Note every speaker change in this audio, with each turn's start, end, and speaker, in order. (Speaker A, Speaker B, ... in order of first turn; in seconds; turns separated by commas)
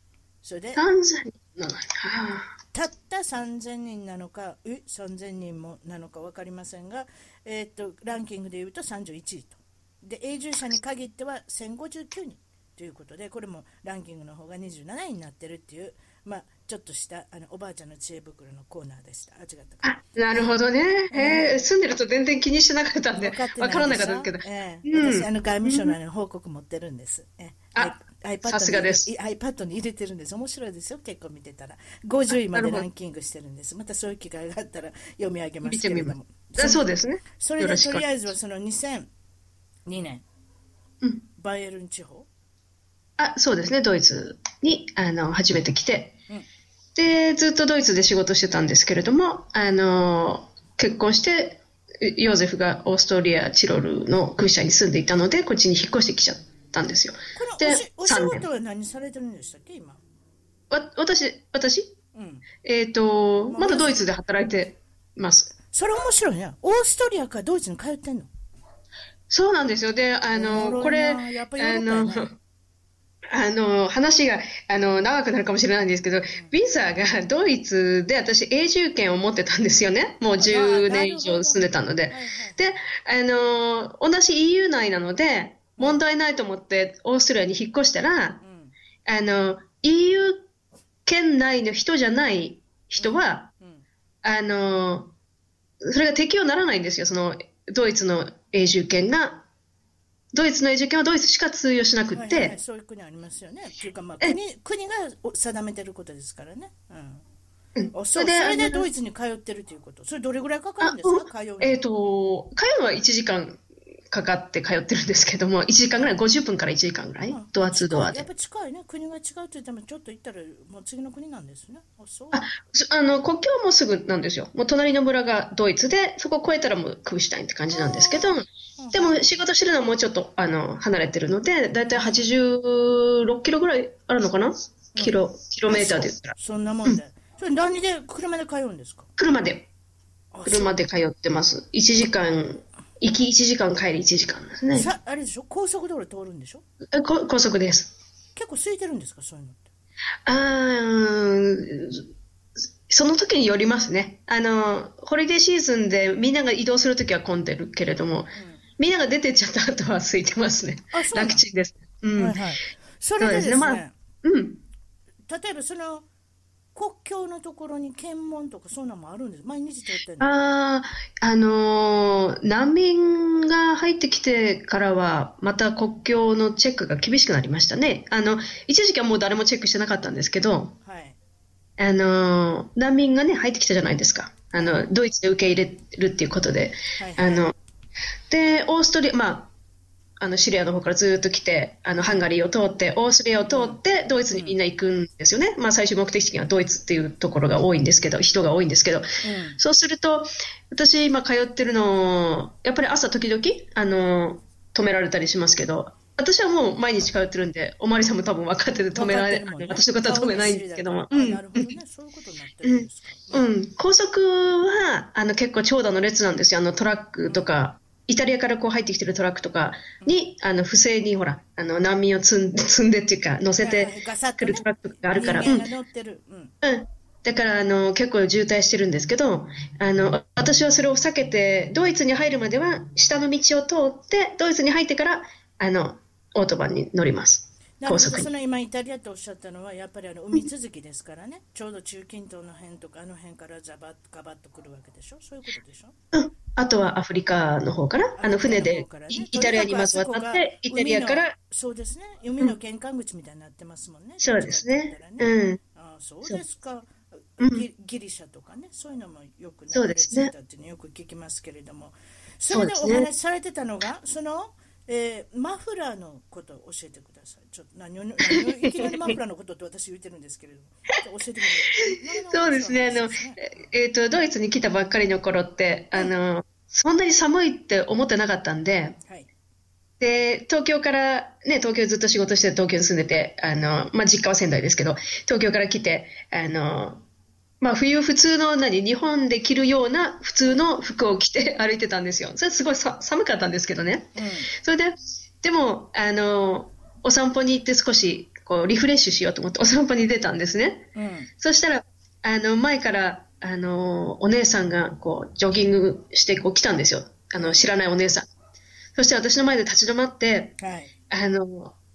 Speaker A: 0.4-0.8, Speaker B: 0.8-2.5, Speaker A: 2.7-20.0, Speaker B: 19.8-25.9, Speaker A: 21.1-21.7, Speaker A: 23.2-39.1, Speaker B: 28.4-29.1, Speaker B: 32.3-32.9, Speaker B: 35.6-38.1, Speaker A: 39.9-40.2, Speaker A: 41.4-42.3, Speaker B: 43.2-46.2, Speaker B: 46.9-58.4, Speaker A: 57.3-60.0, Speaker B: 60.7-61.9, Speaker A: 62.1-62.5, Speaker B: 62.6-65.5, Speaker A: 63.5-64.0, Speaker A: 65.7-68.3, Speaker B: 69.3-72.3, Speaker A: 70.3-72.3, Speaker B: 73.3-88.4, Speaker A: 80.4-82.6, Speaker A: 88.4-88.7, Speaker B: 89.0-90.5, Speaker B: 91.0-93.5, Speaker A: 93.0-93.8, Speaker B: 94.2-95.1, Speaker B: 95.8-99.4, Speaker B: 100.3-102.5, Speaker A: 102.1-107.2, Speaker B: 107.8-108.9, Speaker A: 107.9-111.8, Speaker B: 110.8-118.3, Speaker A: 117.3-122.5, Speaker B: 122.3-136.3, Speaker A: 127.7-129.4, Speaker A: 131.9-132.2, Speaker A: 134.9-139.1, Speaker B: 139.2-139.7, Speaker A: 140.3-140.8, Speaker B: 140.4-144.9, Speaker A: 144.7-146.6, Speaker B: 146.9-147.9, Speaker A: 148.3-149.7, Speaker B: 150.2-152.0, Speaker B: 152.9-162.4, Speaker A: 158.3-158.6, Speaker A: 160.9-161.4, Speaker A: 162.1-163.9, Speaker B: 163.2-164.6, Speaker A: 165.3-166.1, Speaker A: 166.7-170.3, Speaker B: 170.2-180.7, Speaker A: 180.8-181.2, Speaker B: 181.8-187.5, Speaker A: 187.0-187.4, Speaker B: 188.3-189.5, Speaker B: 190.2-199.1, Speaker A: 193.5-193.8, Speaker A: 199.2-199.6, Speaker B: 199.6-211.7, Speaker A: 208.9-213.5, Speaker B: 212.6-225.7, Speaker A: 223.6-226.5, Speaker B: 226.6-238.3, Speaker A: 237.8-245.9, Speaker B: 246.1-251.3, Speaker A: 248.2-273.4, Speaker B: 254.2-255.6, Speaker B: 257.4-257.6, Speaker B: 259.7-260.3, Speaker B: 262.5-263.1, Speaker B: 268.3-269.1, Speaker B: 271.8-278.9, Speaker A: 279.0-279.3, Speaker B: 280.0-287.0, Speaker B: 287.6-300.9, Speaker A: 294.1-294.5, Speaker A: 300.9-301.3, Speaker B: 301.4-308.3, Speaker B: 308.9-310.6, Speaker A: 310.6-310.9, Speaker B: 311.1-311.7